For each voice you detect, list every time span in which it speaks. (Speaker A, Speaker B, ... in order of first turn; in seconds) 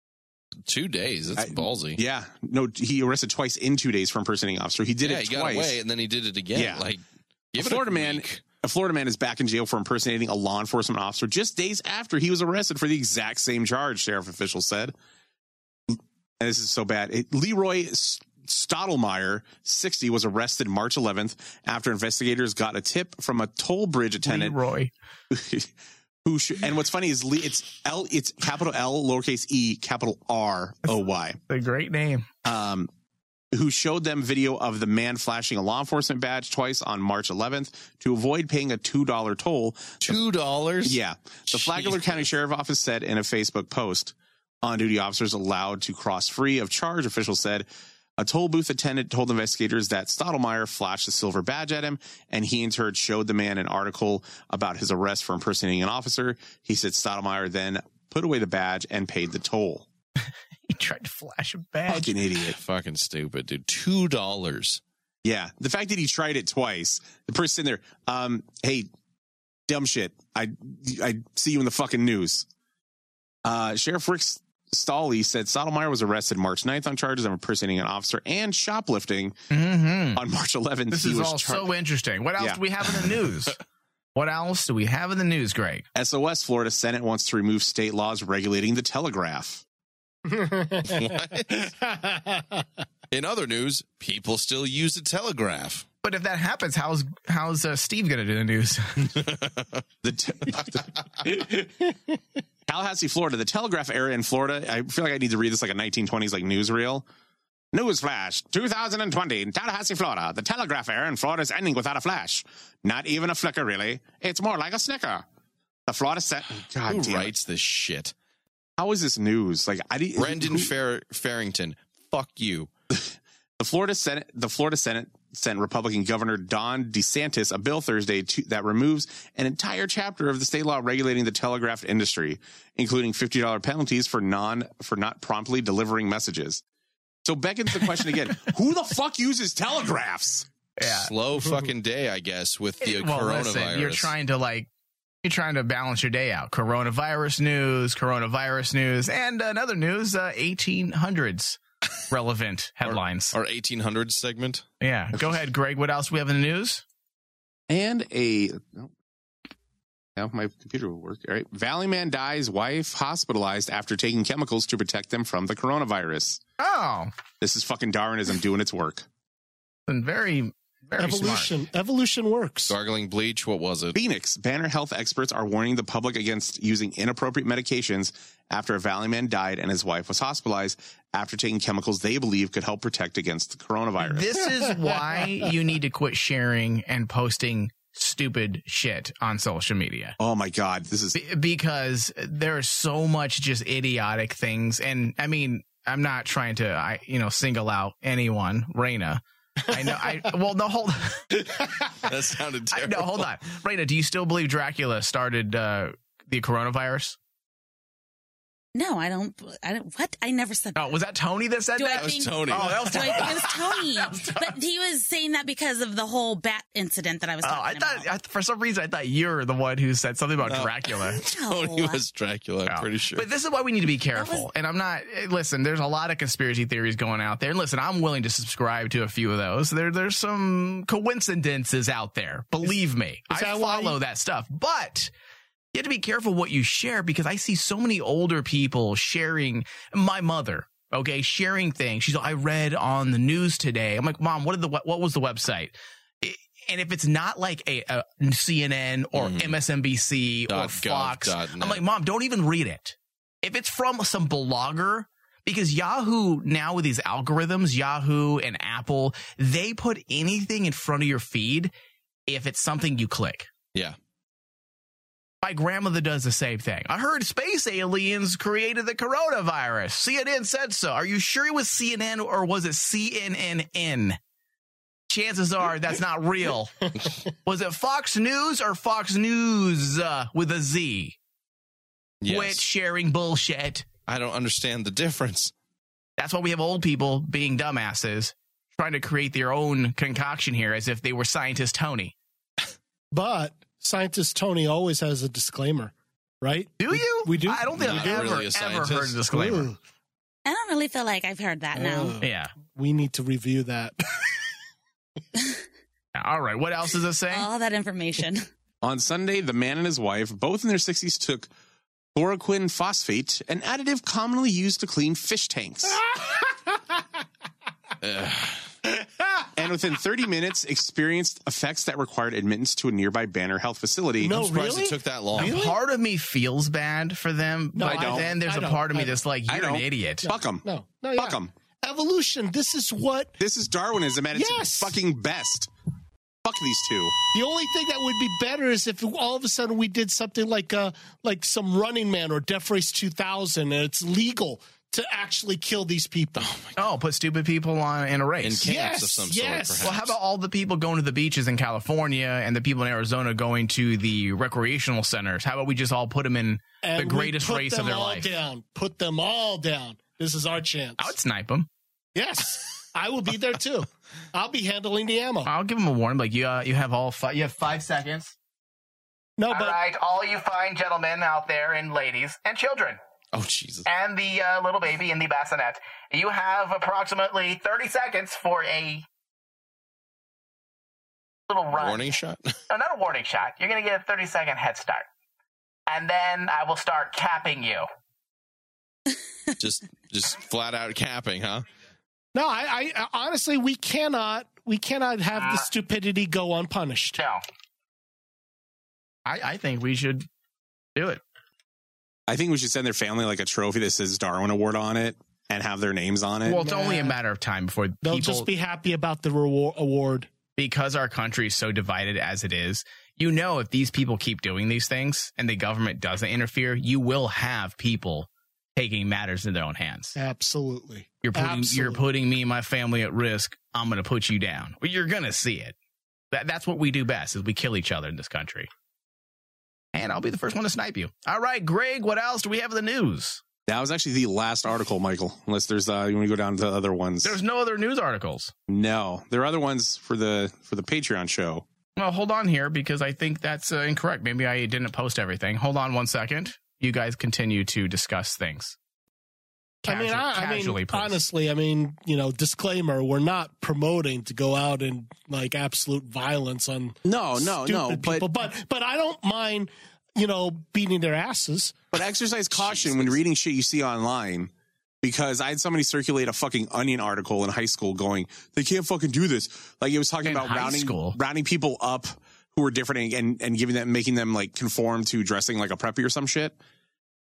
Speaker A: 0.7-2.0, 5.0-7.0, 7.5-8.4, 40.0-41.0, 62.4-64.8, 90.8-91.7, 93.1-95.9, 99.2-99.8, 116.9-118.1, 120.2-122.7, 140.8-144.1, 152.8-154.7, 172.7-174.0, 202.0-203.3, 211.9-213.1, 220.4-223.3, 249.2-249.6, 250.5-251.8, 282.2-282.6, 284.1-285.5, 297.8-299.2, 318.0-318.7, 324.4-325.6, 346.4-346.8, 348.4-350.1, 373.3-373.9, 381.7-382.6, 389.6-391.7, 462.5-463.2
Speaker B: 1.4-5.8, 6.5-6.9, 7.6-14.9, 15.9-24.6, 25.3-25.7, 26.2-31.4, 32.4-32.9, 33.5-40.1, 40.8-47.7, 48.2-59.9, 61.9-62.6, 65.2-68.9, 69.7-72.5, 73.5-79.4, 80.2-81.7, 86.0-89.6, 100.0-101.0, 102.7-107.0, 107.7-115.2, 115.9-117.3, 118.8-120.7, 122.9-136.6, 137.2-140.5, 157.7-158.9, 160.2-166.4, 167.4-169.1, 173.9-184.4, 190.2-191.2, 308.8-311.5, 312.1-316.0, 319.6-324.5, 327.8-328.3, 329.5-330.6, 331.2-331.5, 333.4-335.7, 336.4-337.2, 402.3-406.6, 433.7-437.4, 438.7-441.6, 457.1-458.3, 461.9-464.5, 465.0-476.6
Speaker C: 24.2-24.9, 31.5-32.3, 60.7-62.2, 79.5-80.2, 80.9-83.6, 84.2-85.8, 96.0-99.2, 140.8-141.1, 142.8-144.7, 145.2-151.6, 152.1-153.3, 154.8-156.8, 166.6-167.1, 169.9-171.6, 184.0-190.2, 191.2-201.3, 202.7-207.2, 210.8-214.6, 217.4-221.2, 222.7-235.1, 235.7-261.7, 262.3-263.5, 265.4-274.2, 275.1-276.8, 277.4-281.2, 282.3-283.9, 286.2-292.1, 296.8-299.7, 302.2-302.5, 306.1-307.5, 325.4-330.3, 346.8-348.7, 349.8-358.3, 361.0-361.7, 365.4-368.3, 369.5-373.0, 373.9-379.1, 381.5-382.2, 382.7-385.1, 385.9-387.9, 397.2-397.4, 399.3-400.3, 401.0-401.2, 406.4-408.5, 410.6-420.2, 421.2-425.8, 426.3-428.7, 429.9-433.4, 437.2-438.5, 442.0-448.8, 449.9-451.2, 470.2-471.2
Speaker D: 90.3-92.7, 101.4-102.0, 171.0-172.7, 184.4-185.3, 233.3-234.0, 293.1-298.3, 299.3-299.8, 301.7-304.0, 324.2-325.8, 327.8-329.2, 330.2-333.3, 334.3-335.0, 337.3-346.5, 348.6-350.0, 356.8-361.1, 362.1-365.5, 369.4-369.8, 392.3-397.2, 406.6-407.2, 408.0-410.3, 420.2-422.0, 449.9-461.8
Speaker E: 208.8-210.8, 211.8-218.1, 221.3-222.0, 224.2-224.5, 300.5-302.2, 307.3-308.5